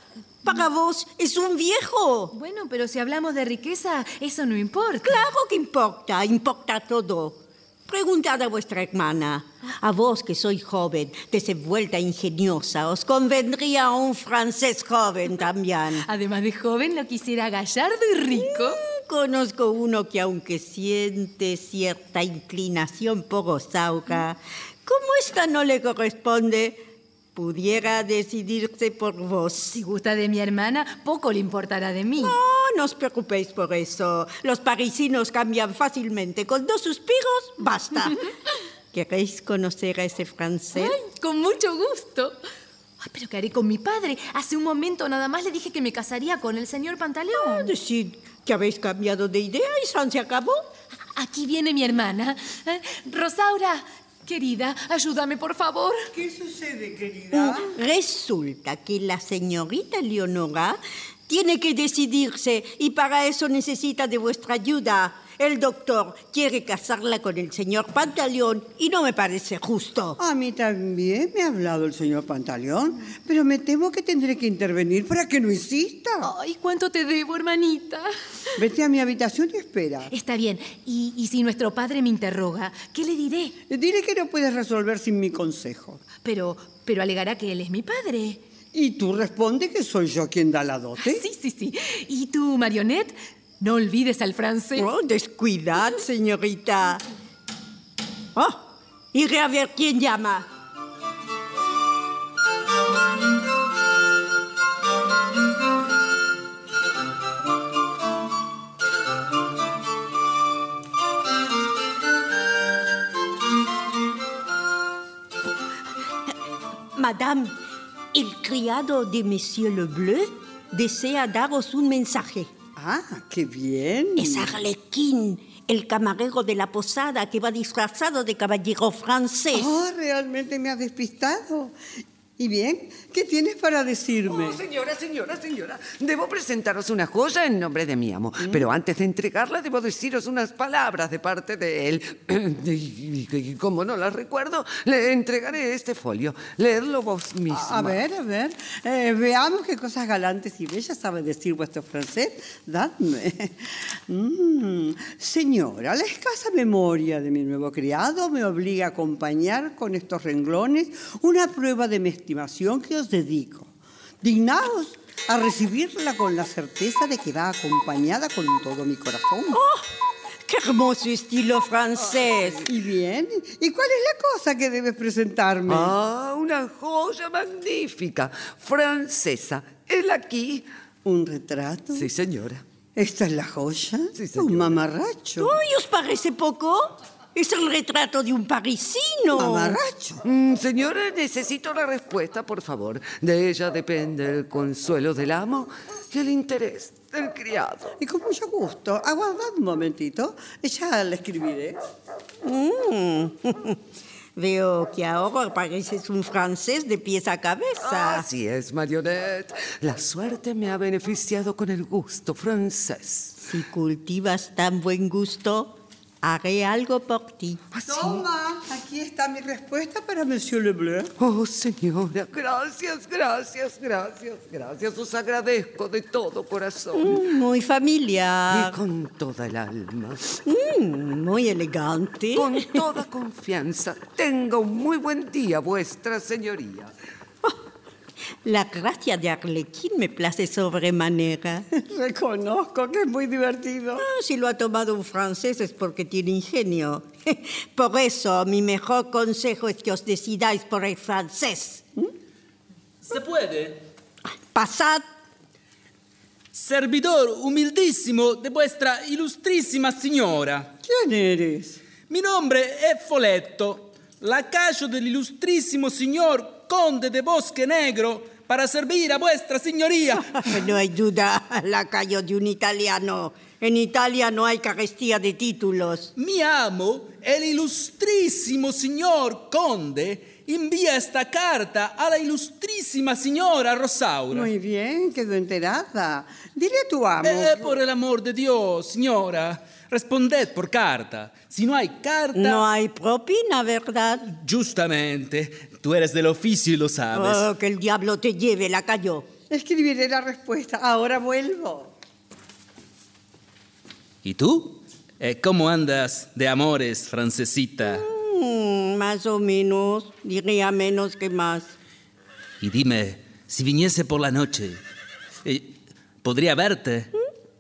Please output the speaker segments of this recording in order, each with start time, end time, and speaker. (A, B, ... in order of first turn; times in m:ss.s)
0:00.4-0:02.3 A
0:02.3-0:05.2 B
0:05.0-0:16.0 A
0:16.0-0:18.8 B
0:18.3-0:26.8 A
0:27.3-0:29.8 A
0:29.7-0:32.4 B
0:32.2-0:38.2 A
0:38.9-0:41.0 A
0:40.7-0:42.4 B
0:43.0-0:47.7 B
0:47.3-0:50.6 A
0:51.1-0:56.1 B
0:56.1-0:57.7 C
0:57.3-1:10.2 A
1:10.2-1:16.3 C
1:16.2-1:18.1 B
1:18.6-1:20.1 C
1:20.1-1:23.6 B
1:23.7-1:26.0 C
1:26.2-1:28.4 B
1:28.7-1:31.2 C
1:31.0-1:34.9 B
1:34.7-1:37.0 A
1:38.3-1:40.5 A
1:56.9-1:57.5 A
1:58.1-2:02.5 A
2:02.8-2:04.5 C
2:04.2-2:09.7 A
2:09.5-2:11.7 C
2:12.4-2:14.6 C
2:14.2-2:28.0 D
2:27.5-2:49.6 C
2:49.5-2:49.9 A
2:50.4-2:52.6 A
2:52.6-2:55.9 C
2:55.7-3:00.7 D
3:01.0-3:02.1 C
3:01.9-3:02.6 D
3:03.0-3:05.5 C
3:04.1-3:04.8 D
3:05.4-3:09.8 A
3:09.3-3:10.2 C
3:10.2-3:17.9 D
3:18.0-3:21.8 C
3:22.4-3:23.8 A
3:24.4-3:28.2 A
3:27.8-3:33.4 D
3:33.4-3:37.6 A
3:37.7-3:38.2 D
3:37.9-3:41.1 C
3:41.2-3:47.2 D
3:47.0-3:48.8 A
3:48.5-3:50.4 D
3:50.4-3:52.8 A
3:52.3-3:56.9 D
3:58.4-4:01.6 A
4:01.7-4:04.0 C
4:04.0-4:11.8 A
4:13.0-4:13.8 E
4:14.5-4:15.0 A
4:16.5-4:20.7 E
4:20.8-4:21.8 C
4:22.1-4:30.5 E
4:30.3-4:36.1 A
4:36.2-4:44.5 E
4:44.3-4:47.8 C
4:47.2-4:52.6 E
4:52.3-4:54.3 A
4:54.3-4:57.4 E
4:57.1-4:59.3 A
4:59.5-5:01.9 C
5:04.2-5:08.0 E
5:07.8-5:11.7 A
5:12.6-5:14.8 E
5:15.4-5:17.1 E